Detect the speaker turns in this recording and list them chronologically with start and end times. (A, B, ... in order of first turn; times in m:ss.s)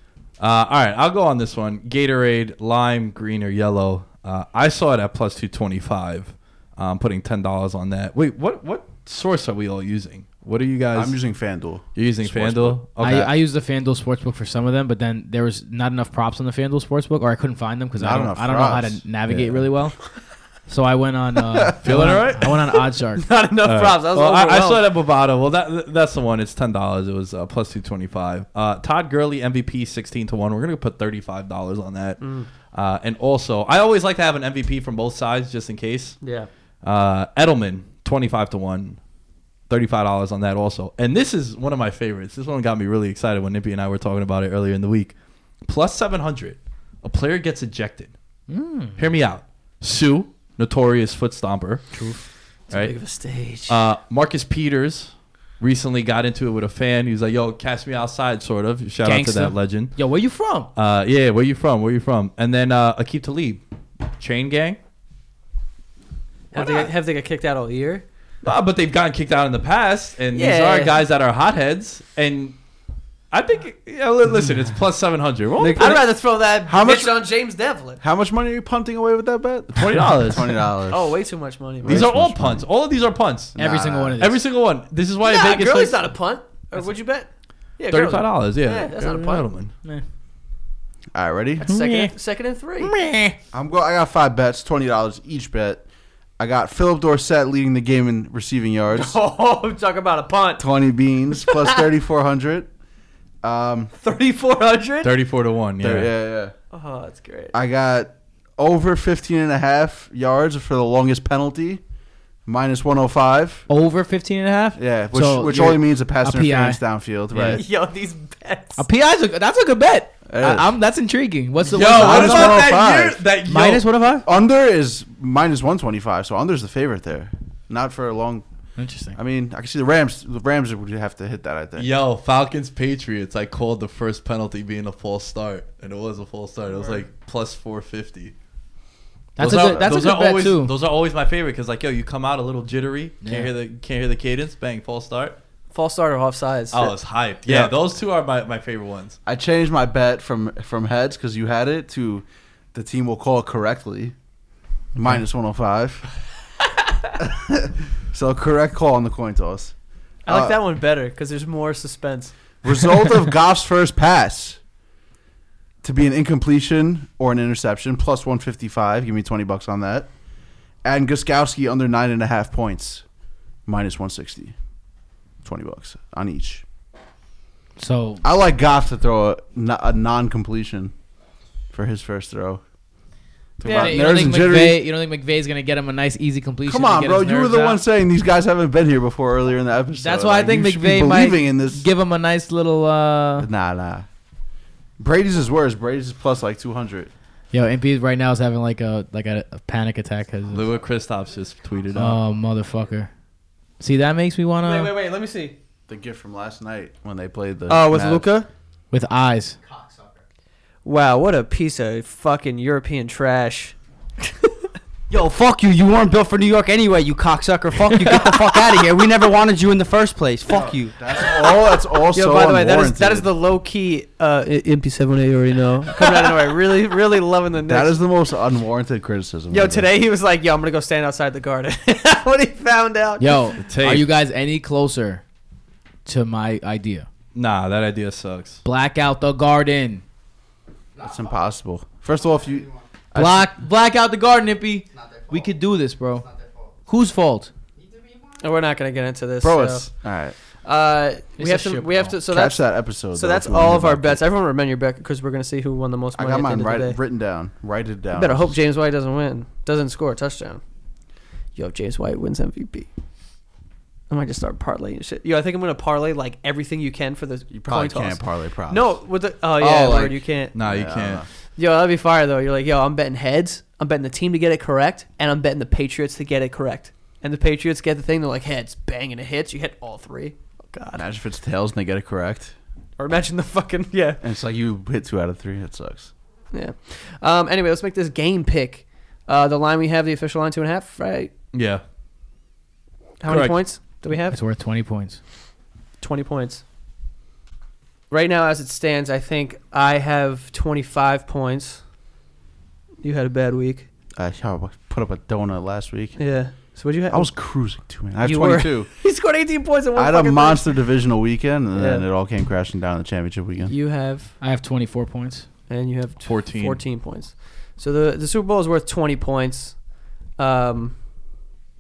0:00.4-0:11.4 A
0:11.0-0:12.8 B
0:11.9-0:13.3 A
0:13.0-0:23.2 C
0:18.0-0:19.1 B
0:19.3-0:19.6 A
0:21.7-0:22.3 B
0:21.8-0:22.5 A
0:23.2-0:24.8 D
0:23.6-0:39.0 A
0:32.2-0:32.5 D
0:36.2-0:36.5 D
0:39.7-0:48.2 A
0:48.5-0:49.0 C
0:49.0-1:00.2 A
0:51.9-0:52.2 C
0:52.7-0:53.8 D
0:59.0-1:00.7 C
1:00.7-1:03.6 A
1:04.1-1:04.8 A
1:06.5-1:08.0 D
1:08.4-1:12.6 A
1:10.3-1:11.0 D
1:13.3-1:16.0 A
1:15.6-1:18.0 D
1:16.7-1:17.3 B
1:18.0-1:21.3 B
1:19.7-1:20.6 A
1:20.9-1:22.1 D
1:21.8-1:22.7 B
1:21.8-1:23.6 A
1:23.6-1:24.2 B
1:23.6-1:24.4 C
1:24.2-1:26.1 A
1:25.2-1:29.5 D
1:27.9-1:29.7 A
1:31.2-1:31.6 B
1:31.6-1:33.0 D
1:31.6-1:33.4 C
1:33.5-1:35.9 B
1:36.4-1:39.2 B
1:38.9-1:40.7 D
1:40.6-1:42.7 B
1:41.5-1:41.8 D
1:43.4-1:44.0 B
1:44.0-1:45.2 D
1:45.0-1:46.1 A
1:45.8-1:46.6 B
1:46.7-1:47.5 D
1:47.5-1:51.8 B
1:52.5-1:53.7 B
1:53.7-1:57.6 C
1:54.8-1:57.6 B
1:57.5-1:58.9 D
1:58.8-2:04.3 C
2:00.3-2:00.7 B
2:01.7-2:03.9 A
2:01.8-2:03.2 B
2:04.2-2:08.5 B
2:08.8-2:09.2 C
2:09.1-2:11.9 B
2:11.8-2:18.4 A
2:16.7-2:17.0 D
2:19.4-2:20.7 C
2:19.4-2:25.4 A
2:19.7-2:20.0 B
2:23.2-2:23.5 C
2:25.7-2:27.0 D
2:26.7-2:29.2 A
2:27.5-2:27.7 B
2:29.3-2:34.2 B
2:35.0-2:36.1 B
2:37.2-2:39.8 B
2:40.3-2:40.6 B
2:40.3-2:42.6 D
2:42.6-2:44.6 B
2:45.8-2:50.1 B
2:50.8-2:53.1 B
2:53.6-2:54.6 B
2:55.4-2:56.6 B
2:57.8-2:58.2 C
2:58.2-3:01.0 B
3:01.7-3:02.7 B
3:03.6-3:04.8 B
3:03.6-3:04.0 D
3:03.6-3:07.8 C
3:06.7-3:11.9 B
3:10.0-3:13.5 C
3:13.4-3:14.1 B
3:15.0-3:17.1 B
3:17.5-3:20.7 C
3:20.5-3:22.2 A
3:22.0-3:23.2 C
3:23.8-3:24.9 C
3:24.6-3:25.6 D
3:25.9-3:28.3 B
3:27.7-3:28.5 D
3:28.9-3:29.6 C
3:30.8-3:33.8 D
3:35.1-3:41.0 E
3:40.5-3:43.3 B
3:42.1-3:48.0 D
3:46.1-3:46.4 B
3:47.7-3:49.9 B
3:49.5-3:53.6 D
3:53.2-3:55.2 C
3:53.6-3:54.1 A
3:56.0-3:57.1 C
3:57.3-3:58.6 A
3:58.6-4:00.0 C
4:01.0-4:03.5 B
4:03.2-4:07.5 C
4:08.4-4:17.0 D
4:09.4-4:10.4 B
4:11.4-4:12.2 C
4:12.3-4:14.2 B
4:16.2-4:18.6 B
4:18.1-4:20.6 D
4:21.6-4:22.9 D
4:24.1-4:30.6 D
4:27.5-4:31.3 B
4:30.5-4:31.3 A
4:31.4-4:41.0 D
4:40.9-4:42.6 B
4:43.0-4:44.2 D
4:44.2-4:46.2 B
4:46.5-4:51.3 D
4:51.5-4:51.8 A
4:53.2-4:54.4 D
4:53.3-4:53.8 A
4:54.3-4:55.2 C
4:56.0-4:56.6 D
4:58.1-5:01.9 D
5:03.0-5:03.9 D
5:04.1-5:09.0 B
5:06.2-5:07.7 D
5:08.2-5:10.8 D
5:10.0-5:13.7 B
5:11.8-5:12.1 D
5:13.7-5:14.4 D
5:14.4-5:15.5 C
5:15.7-5:21.0 D
5:16.2-5:16.8 A